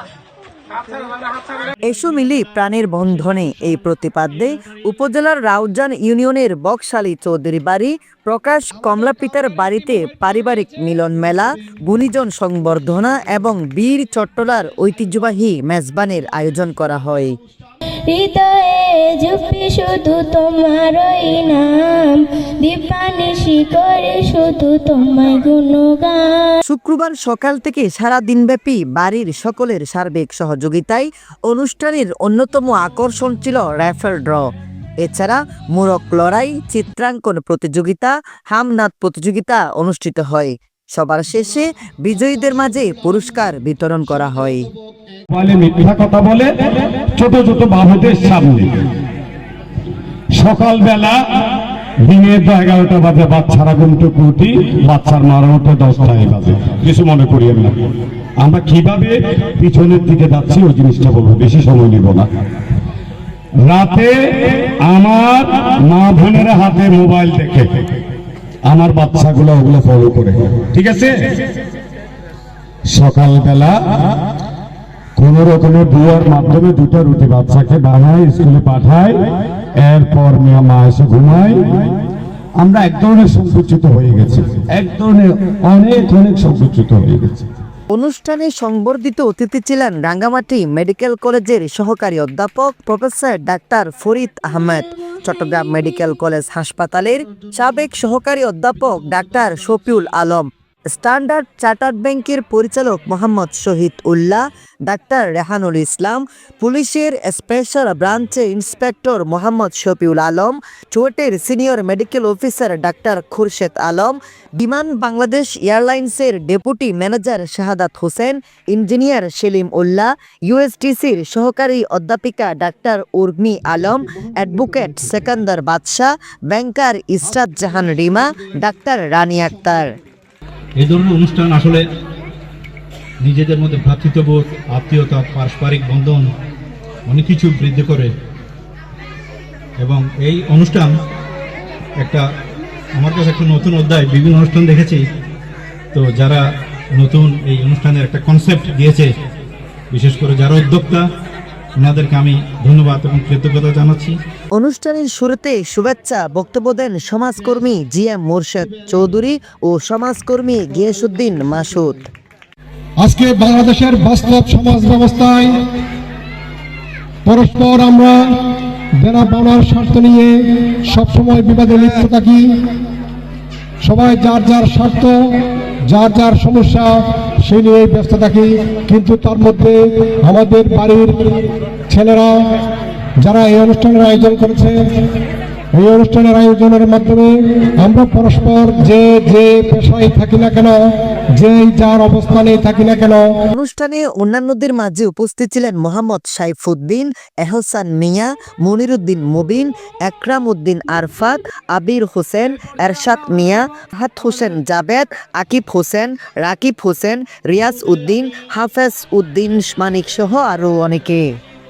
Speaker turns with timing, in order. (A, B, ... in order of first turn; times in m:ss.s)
0:01.8-0:17.3 A
0:18.1-0:26.5 B
0:26.6-0:34.5 A
0:35.0-0:44.6 A
0:45.3-0:48.8 C
0:50.4-0:51.2 C
0:52.0-0:57.8 C
0:58.4-1:02.3 C
1:03.6-1:07.7 C
1:08.7-1:11.4 C
1:12.9-1:13.8 C
1:15.2-1:19.2 C
1:19.8-1:22.0 C
1:22.6-1:27.5 C
1:27.9-2:09.9 A
2:10.8-2:11.8 D
2:13.2-2:16.3 D
2:17.1-2:18.1 D
2:19.8-2:20.9 D
2:22.0-2:22.2 D
2:23.0-2:25.0 D
2:25.9-2:26.4 D
2:27.0-2:29.1 D
2:29.9-2:31.0 D
2:31.8-2:34.2 D
2:34.6-2:42.0 A
2:43.0-2:45.7 E
2:47.2-2:52.7 E
2:53.8-2:56.9 E
2:57.4-3:02.3 E
3:03.2-3:04.8 E
3:05.8-3:10.8 E
3:11.4-3:13.2 E
3:13.5-3:31.2 A